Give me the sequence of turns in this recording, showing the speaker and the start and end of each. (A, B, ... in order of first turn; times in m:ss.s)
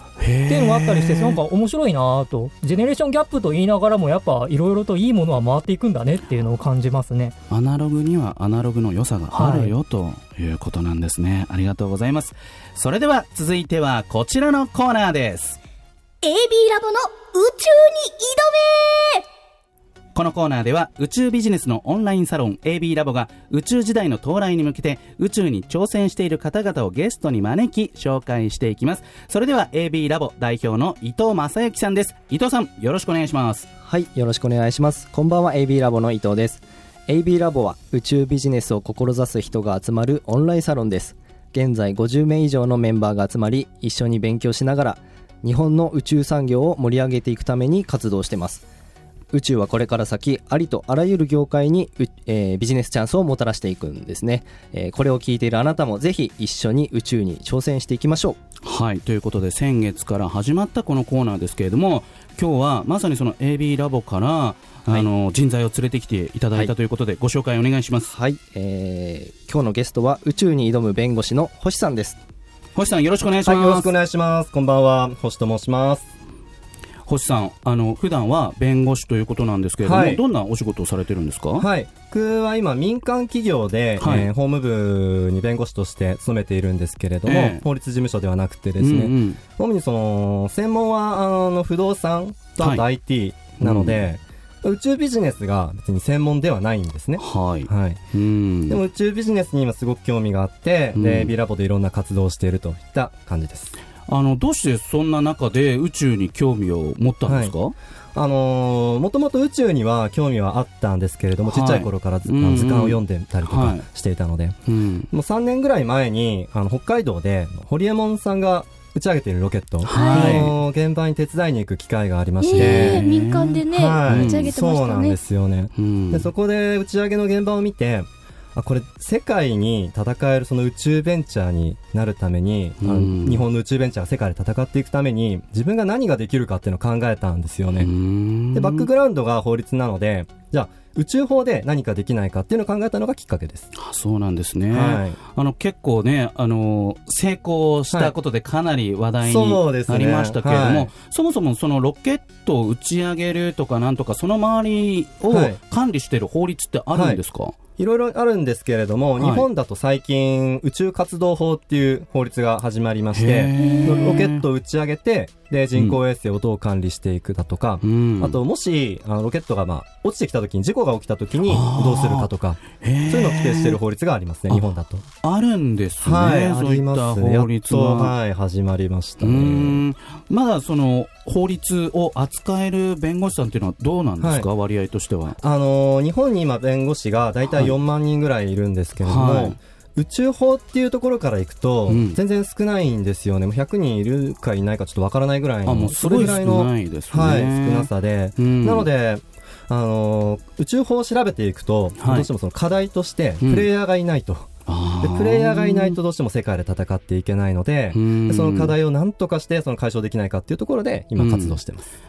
0:00.2-0:01.4 A
0:00.5-0:07.3 B
0:07.5-0:15.6 A
0:09.3-0:09.7 B
0:16.2-0:19.2 C
0:20.1-0:33.6 A
0:33.8-0:48.6 D
0:49.3-0:58.4 D
0:58.6-1:08.1 A
1:08.1-1:12.2 D
1:12.7-1:13.9 A
1:13.4-1:16.1 E
1:17.0-1:21.6 A
1:19.8-1:20.2 E
1:21.6-1:38.0 E
1:24.0-1:24.3 A
1:27.2-1:27.6 A
1:28.8-1:29.4 A
1:33.6-1:34.0 A
1:37.2-1:38.8 A
1:38.7-1:43.7 E
1:40.9-1:41.3 A
1:44.1-1:47.7 A
1:47.2-1:47.5 E
1:48.1-1:54.6 E
1:51.4-1:53.8 A
1:54.7-1:55.1 A
1:55.1-2:03.0 E
1:59.8-2:00.5 A
1:59.9-2:00.5 C
2:02.4-2:05.2 C
2:02.5-2:04.5 A
2:03.7-2:17.9 E
2:05.8-2:06.3 A
2:12.8-2:13.4 A
2:17.8-2:18.9 A
2:18.5-2:23.7 E
2:23.7-2:37.5 A
2:24.7-2:25.2 E
2:29.2-2:30.9 E
2:35.3-2:35.6 E
2:36.9-2:37.2 E
2:37.8-2:55.0 E
2:39.2-2:39.4 A
2:43.1-2:44.4 A
2:43.6-2:44.0 C
2:47.8-2:48.4 A
2:51.4-2:53.8 A
2:55.2-2:58.1 A
2:56.0-2:59.8 E
2:59.2-3:05.4 A
3:04.2-3:04.5 E
3:05.4-3:24.5 E
3:09.0-3:09.6 A
3:11.9-3:12.2 A
3:15.6-3:18.9 A
3:22.0-3:22.3 A
3:23.4-3:23.7 A
3:24.7-3:26.0 A
3:25.0-3:31.8 E
3:27.9-3:28.7 A
3:31.2-3:31.6 A